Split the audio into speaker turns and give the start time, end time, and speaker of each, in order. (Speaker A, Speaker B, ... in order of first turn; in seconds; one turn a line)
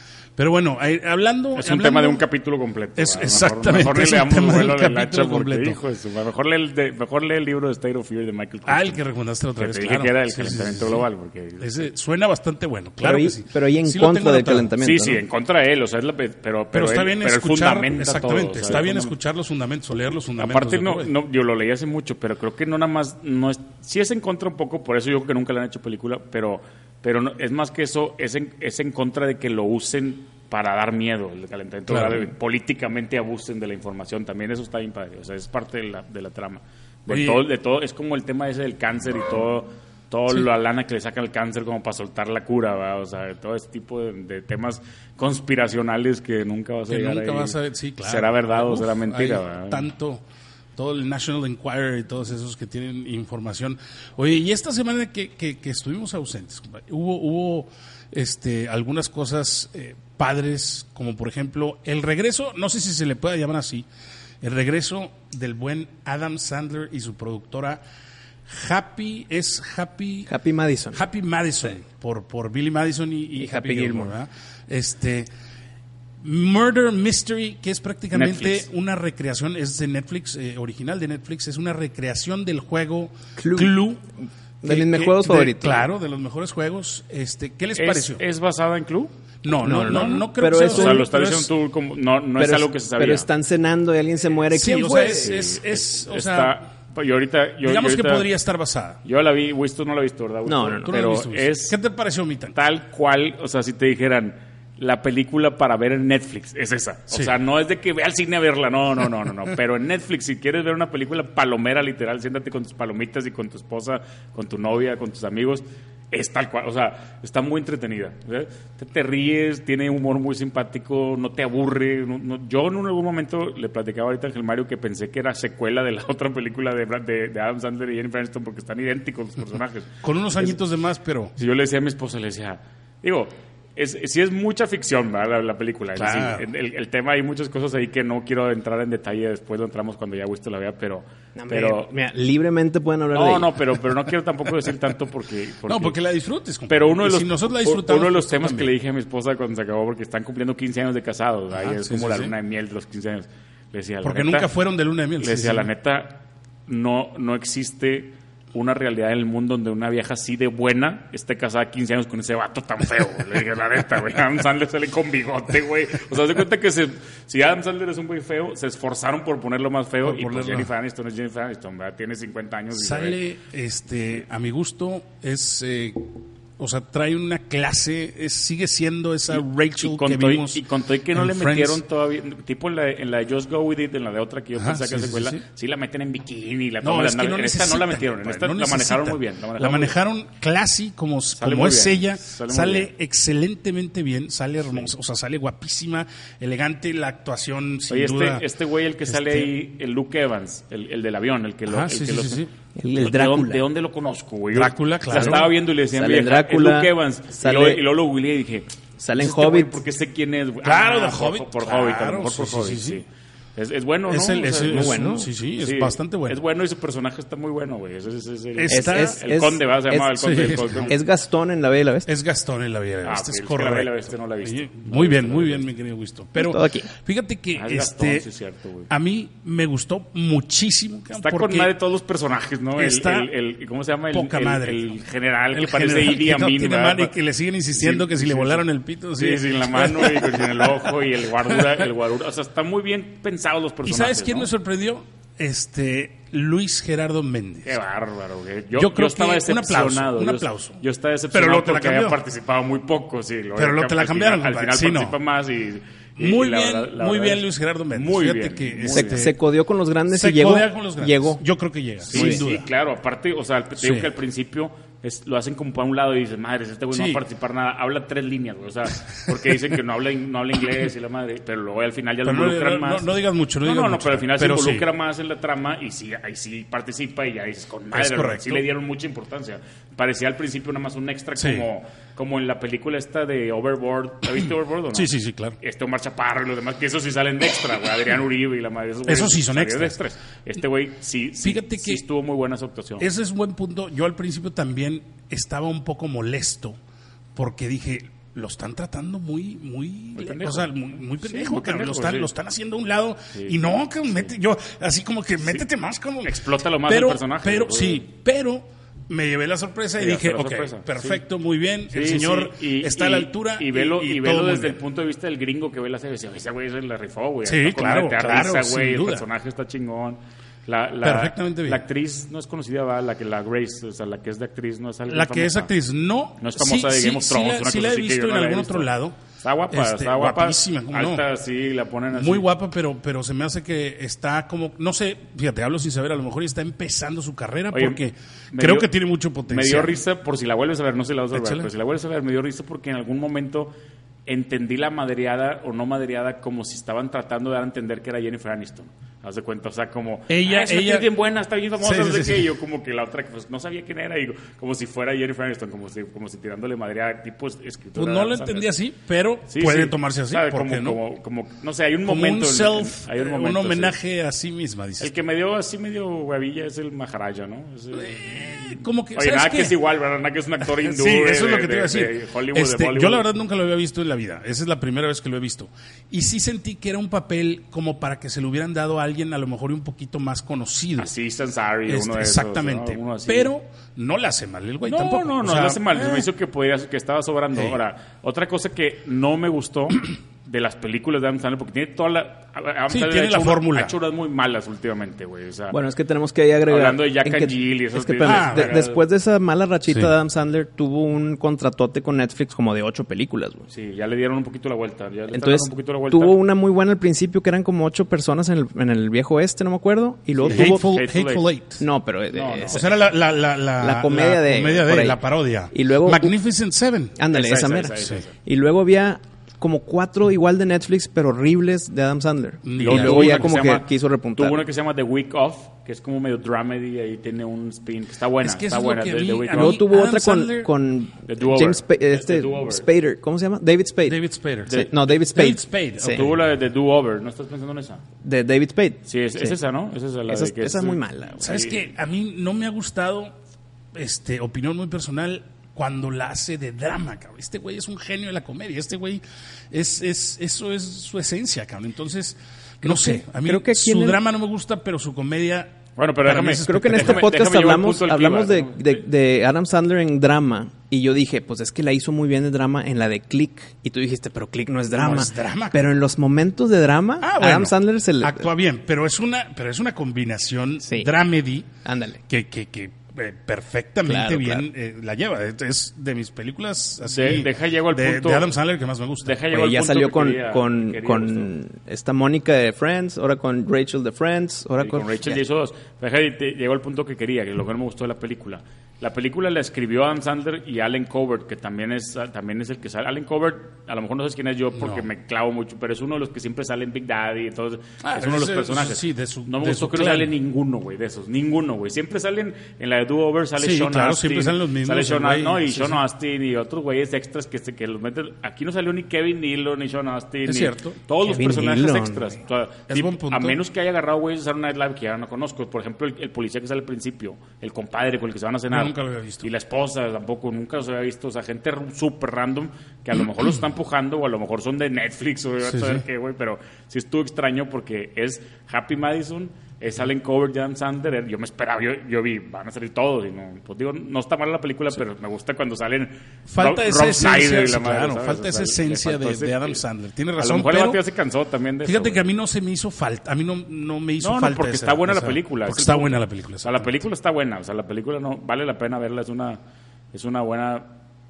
Speaker A: 0.4-2.2
Speaker B: 1.6-9.0
Speaker A: 3.0-5.8
Speaker A: 8.7-11.0
Speaker B: 9.6-11.9
Speaker A: 11.6-14.7
Speaker C: 13.0-15.2
Speaker B: 14.8-19.1
Speaker A: 16.7-21.1
Speaker B: 20.4-49.9
Speaker A: 31.9-32.2
Speaker A: 37.1-37.4
Speaker A: 46.9-50.2
Speaker A: 50.8-63.9
Speaker A: 64.4-67.8
Speaker A: 68.5-70.3
Speaker C: 70.3-71.0
Speaker A: 70.9-75.3
Speaker C: 73.4-74.1
Speaker A: 76.2-84.0
Speaker B: 78.1-78.7
Speaker C: 83.4-83.8
Speaker C: 84.6-85.8
Speaker A: 84.6-88.2
Speaker B: 87.8-89.1
Speaker A: 89.4-91.5
Speaker C: 89.6-91.1
Speaker B: 90.5-93.3
Speaker C: 92.4-95.4
Speaker A: 94.5-96.6
Speaker B: 94.9-98.3
Speaker A: 97.6-99.0
Speaker B: 99.0-101.8
Speaker C: 100.5-101.0
Speaker A: 100.8-102.6
Speaker B: 102.5-130.6
Speaker A: 130.0-131.3
Speaker B: 131.4-141.9
Speaker A: 136.0-136.4
Speaker C: 141.4-143.5
Speaker B: 143.1-146.0
Speaker A: 145.7-148.7
Speaker B: 146.7-154.5
Speaker A: 151.6-152.3
Speaker A: 154.0-155.7
Speaker B: 155.2-173.2
Speaker A: 170.0-170.7
Speaker A: 172.7-181.8
Speaker B: 179.3-189.9
Speaker A: 184.6-185.4
Speaker A: 186.8-198.4
Speaker B: 191.4-192.9
Speaker B: 197.9-202.4
Speaker A: 199.1-199.5
Speaker A: 201.7-202.5
Speaker C: 202.8-203.6
Speaker B: 203.0-213.0
Speaker A: 204.5-205.5
Speaker C: 205.1-207.8
Speaker C: 209.0-209.8
Speaker A: 210.6-213.0
Speaker B: 213.6-215.1
Speaker A: 214.1-216.4
Speaker C: 214.7-215.3
Speaker B: 215.6-221.0
Speaker A: 218.6-219.2
Speaker C: 218.7-222.1
Speaker A: 220.2-220.9
Speaker A: 222.1-228.2
Speaker B: 223.1-225.7
Speaker C: 226.4-226.9
Speaker B: 227.6-228.9
Speaker A: 228.9-231.7
Speaker B: 231.2-237.1
Speaker A: 232.8-233.3
Speaker A: 234.1-234.9
Speaker A: 235.5-240.9
Speaker B: 237.7-238.6
Speaker B: 239.2-244.5
Speaker A: 243.9-247.8
Speaker B: 247.7-259.3
Speaker A: 248.7-250.8
Speaker A: 251.3-252.2
Speaker A: 253.6-255.2
Speaker A: 256.2-259.4
Speaker C: 258.9-261.4
Speaker A: 260.1-262.7
Speaker B: 262.1-273.1
Speaker C: 262.1-262.4
Speaker A: 263.8-264.1
Speaker A: 266.9-267.2
Speaker A: 272.2-274.9
Speaker B: 273.6-293.1
Speaker A: 277.9-278.7
Speaker A: 281.4-281.6
Speaker A: 284.9-285.6
Speaker A: 289.1-290.0
Speaker A: 291.4-292.0
Speaker A: 293.0-296.8
Speaker A: 297.4-314.8
Speaker B: 300.2-302.3
Speaker B: 306.2-308.1
Speaker B: 310.0-311.2
Speaker B: 311.9-325.7
Speaker A: 317.4-319.2
Speaker A: 321.0-321.8
Speaker A: 325.1-329.2
Speaker B: 326.4-328.9
Speaker B: 329.4-332.5
Speaker A: 329.7-331.2
Speaker A: 332.1-340.0
Speaker B: 337.7-338.0
Speaker B: 338.5-338.9
Speaker B: 339.5-343.7
Speaker A: 341.3-341.7
Speaker B: 344.3-358.7
Speaker A: 350.3-351.1
Speaker A: 351.8-352.5
Speaker A: 357.9-361.0
Speaker B: 359.5-364.0
Speaker A: 362.1-365.1
Speaker B: 365.0-373.3
Speaker A: 367.9-369.8
Speaker A: 370.8-381.1
Speaker B: 381.0-383.5
Speaker A: 381.9-386.3
Speaker B: 384.9-395.8
Speaker A: 392.9-393.9
Speaker C: 395.7-403.6
Speaker B: 396.7-399.0
Speaker A: 398.2-398.8
Speaker B: 403.7-406.4
Speaker C: 405.3-410.8
Speaker B: 410.4-411.5
Speaker A: 410.5-411.8
Speaker C: 411.8-412.9
Speaker B: 412.3-412.9
Speaker A: 412.7-417.2
Speaker C: 413.8-415.2
Speaker C: 415.7-416.3
Speaker C: 417.2-424.6
Speaker B: 417.3-418.3
Speaker A: 422.6-423.6
Speaker B: 422.8-429.8
Speaker A: 428.4-430.7
Speaker C: 429.5-436.2
Speaker B: 431.3-432.9
Speaker A: 434.1-436.3
Speaker B: 434.7-434.9
Speaker B: 436.0-438.0
Speaker C: 438.2-439.6
Speaker B: 439.1-441.9
Speaker C: 440.3-441.6
Speaker A: 441.4-443.3
Speaker A: 443.9-457.3
Speaker C: 452.8-454.2
Speaker B: 456.0-459.0
Speaker C: 456.6-468.5
Speaker A: 464.9-465.8
Speaker A: 467.2-471.7
Speaker C: 470.8-471.1
Speaker C: 471.9-472.2
Speaker A: 472.3-479.4
Speaker C: 474.1-474.7
Speaker B: 477.0-478.5
Speaker B: 479.2-481.5
Speaker C: 479.5-485.4
Speaker B: 484.8-539.8
Speaker A: 494.8-495.1
Speaker A: 498.0-500.3
Speaker A: 503.6-506.0
Speaker A: 510.5-511.0
Speaker C: 511.2-512.4
Speaker A: 512.9-513.6
Speaker A: 518.7-519.5
Speaker A: 525.7-526.0
Speaker A: 536.5-541.0
Speaker B: 540.4-542.2
Speaker A: 541.9-547.0
Speaker B: 544.2-549.6
Speaker B: 550.1-550.9